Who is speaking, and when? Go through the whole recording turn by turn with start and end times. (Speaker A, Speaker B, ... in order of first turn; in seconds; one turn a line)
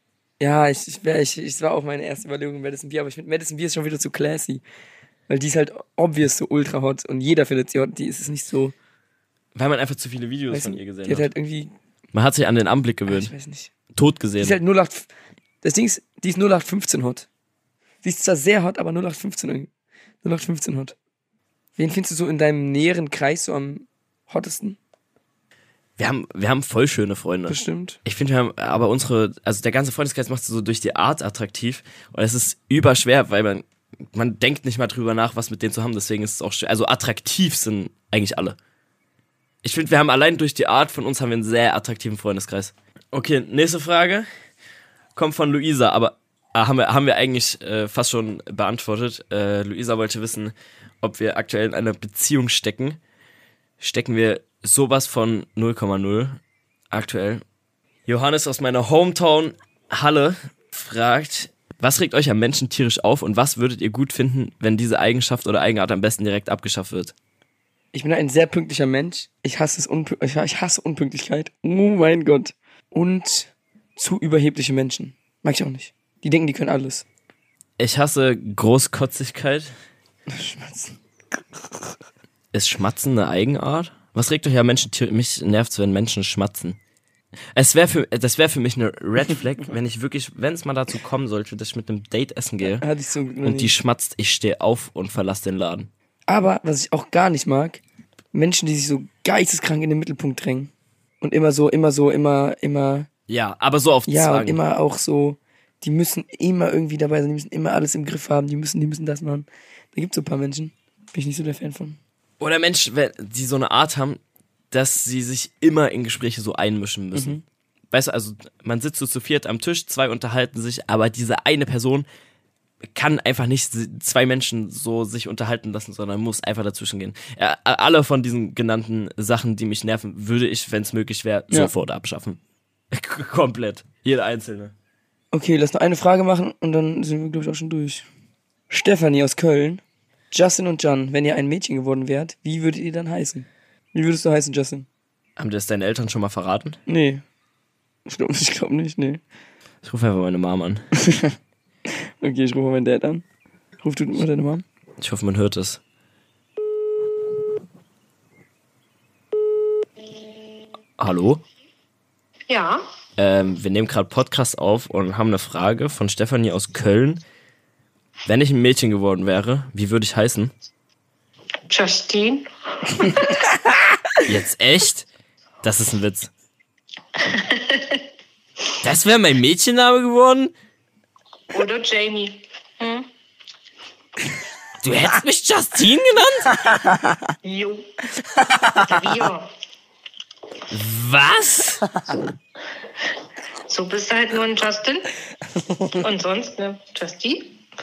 Speaker A: 0.4-4.6
Speaker A: 5.3-8.8
Speaker B: 9.6-11.3
Speaker A: 10.5-11.7
Speaker B: 12.1-13.3
Speaker A: 13.1-13.7
Speaker B: 13.9-14.6
Speaker A: 14.4-15.1
Speaker A: 15.6-17.3
Speaker A: 18.0-19.7
Speaker A: 20.2-20.9
Speaker A: 21.8-24.8
Speaker B: 26.0-38.6
Speaker A: 27.5-28.0
Speaker B: 39.6-44.3
Speaker B: 45.1-53.0
Speaker B: 53.8-56.4
Speaker B: 56.9-57.4
Speaker B: 58.1-67.1
Speaker A: 67.9-77.0
Speaker B: 77.8-79.7
Speaker A: 80.3-81.0
Speaker A: 81.6-81.9
Speaker B: 82.5-86.8
Speaker B: 87.5-92.8
Speaker A: 92.6-93.7
Speaker B: 93.4-95.9
Speaker A: 96.3-97.8
Speaker A: 98.3-103.1
Speaker B: 103.3-104.6
Speaker A: 104.1-112.0
Speaker B: 112.4-114.2
Speaker B: 114.7-117.4
Speaker A: 117.1-117.4
Speaker B: 117.9-122.1
Speaker B: 122.9-132.4
Speaker B: 132.9-134.7
Speaker A: 135.3-138.1
Speaker A: 138.7-144.9
Speaker B: 145.4-146.8
Speaker A: 146.9-147.2
Speaker A: 148.1-149.2
Speaker B: 149.8-150.8
Speaker A: 151.0-151.3
Speaker A: 151.9-153.2
Speaker A: 153.8-154.6
Speaker B: 155.0-155.8
Speaker B: 161.0-161.4
Speaker C: 162.5-162.9
Speaker B: 163.2-167.2
Speaker B: 168.3-170.5
Speaker C: 171.7-173.5
Speaker B: 174.2-175.1
Speaker B: 175.6-176.3
Speaker C: 177.2-178.0
Speaker B: 178.8-180.5
Speaker C: 181.5-183.1
Speaker B: 184.8-186.6
Speaker A: 186.7-187.0
Speaker C: 187.4-187.9
Speaker C: 188.7-189.5
Speaker B: 190.7-191.8
Speaker C: 193.7-195.1
Speaker C: 195.9-197.6